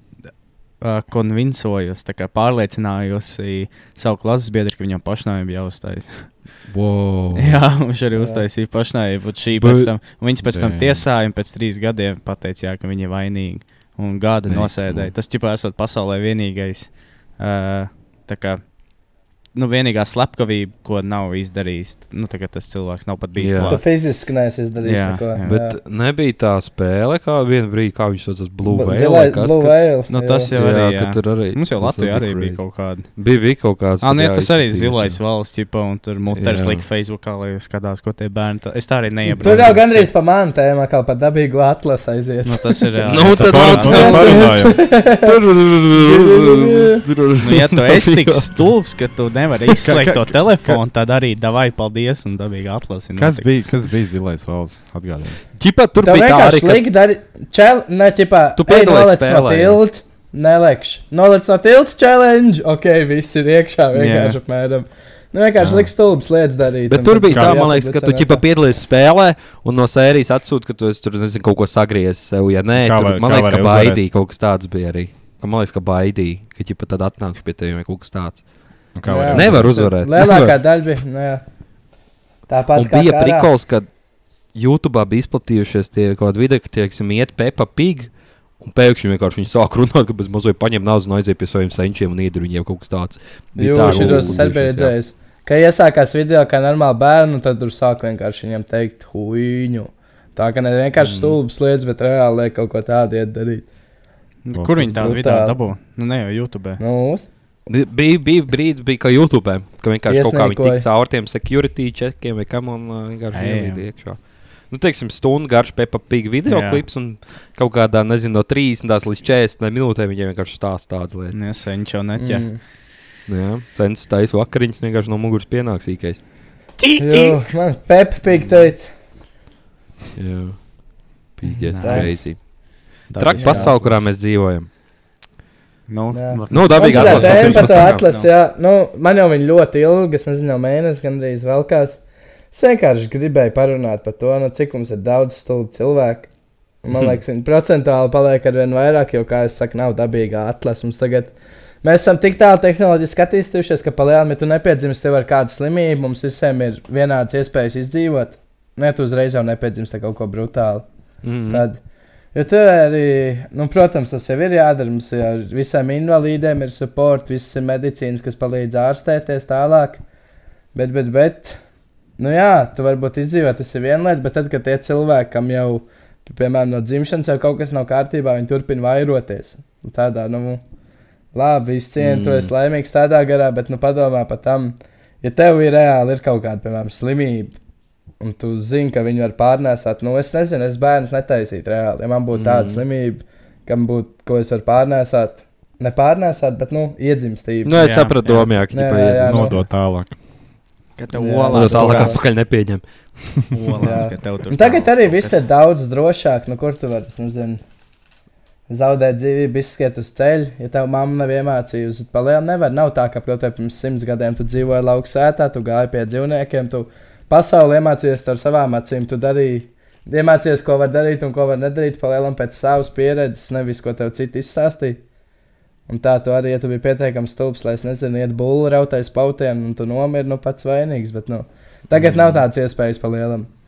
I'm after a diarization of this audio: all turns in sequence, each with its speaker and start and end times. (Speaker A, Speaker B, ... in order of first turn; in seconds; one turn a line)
Speaker A: 0.8-6.6
Speaker B: 6.7-7.6
Speaker A: 7.3-23.9
Speaker C: 8.1-8.4
Speaker B: 9.6-9.9
Speaker D: 10.4-11.1
Speaker B: 14.5-15.1
Speaker B: 23.4-23.8
Speaker C: 23.6-25.8
Speaker A: 24.8-25.5
Speaker B: 25.4-29.9
Speaker C: 28.6-30.5
Speaker A: 30.1-33.1
Speaker B: 30.5-35.2
Speaker A: 34.0-40.1
Speaker B: 36.3-36.8
Speaker C: 39.4-42.8
Speaker A: 42.4-44.4
Speaker B: 43.1-48.5
Speaker D: 43.3-44.9
Speaker C: 43.8-45.4
Speaker C: 45.9-47.0
Speaker A: 47.4-53.8
Speaker D: 49.8-50.8
Speaker D: 53.1-55.4
Speaker B: 55.6-56.9
Speaker C: 56.0-68.4
Speaker B: 58.6-59.8
Speaker A: 63.9-64.4
Speaker D: 65.6-65.9
Speaker B: 66.9-78.4
Speaker D: 67.3-67.7
Speaker D: 72.8-74.0
Speaker D: 78.9-79.7
Speaker C: 79.0-81.4
Speaker B: 79.2-80.6
Speaker C: 82.5-83.5
Speaker B: 82.7-83.9
Speaker B: 84.5-94.9
Speaker C: 93.5-103.7
Speaker D: 93.8-94.4
Speaker B: 101.0-101.3
Speaker A: 104.4-106.8
Speaker D: 104.5-105.1
Speaker C: 104.8-105.6
Speaker C: 106.8-107.3
Speaker B: 107.7-121.4
Speaker C: 110.1-110.8
Speaker A: 113.3-113.8
Speaker A: 116.5-116.8
Speaker A: 121.3-122.5
Speaker C: 122.2-122.6
Speaker B: 123.3-126.2
Speaker A: 126.8-127.5
Speaker C: 127.0-128.9
Speaker B: 130.2-134.7
Speaker A: 131.6-132.3
Speaker C: 131.8-132.3
Speaker A: 133.1-134.0
Speaker C: 133.3-133.8
Speaker A: 135.9-138.3
Speaker C: 136.1-142.0
Speaker B: 136.5-138.1
Speaker D: 137.2-137.7
Speaker C: 142.5-146.3
Speaker C: 146.8-160.9
Speaker B: 161.2-161.7
Speaker C: 161.5-161.8
Speaker C: 162.3-170.0
Speaker C: 170.7-171.6
Speaker C: 172.2-180.6
Speaker C: 181.3-187.6
Speaker B: 182.0-182.5
Speaker C: 188.2-197.9
Speaker B: 192.3-192.8
Speaker B: 197.6-199.6
Speaker A: 197.8-198.5
Speaker C: 198.7-199.6
Speaker D: 199.2-200.1
Speaker A: 201.0-202.2
Speaker C: 201.1-202.2
Speaker B: 201.5-202.8
Speaker A: 203.5-205.4
Speaker C: 203.8-207.6
Speaker C: 208.7-225.0
Speaker C: 225.9-233.5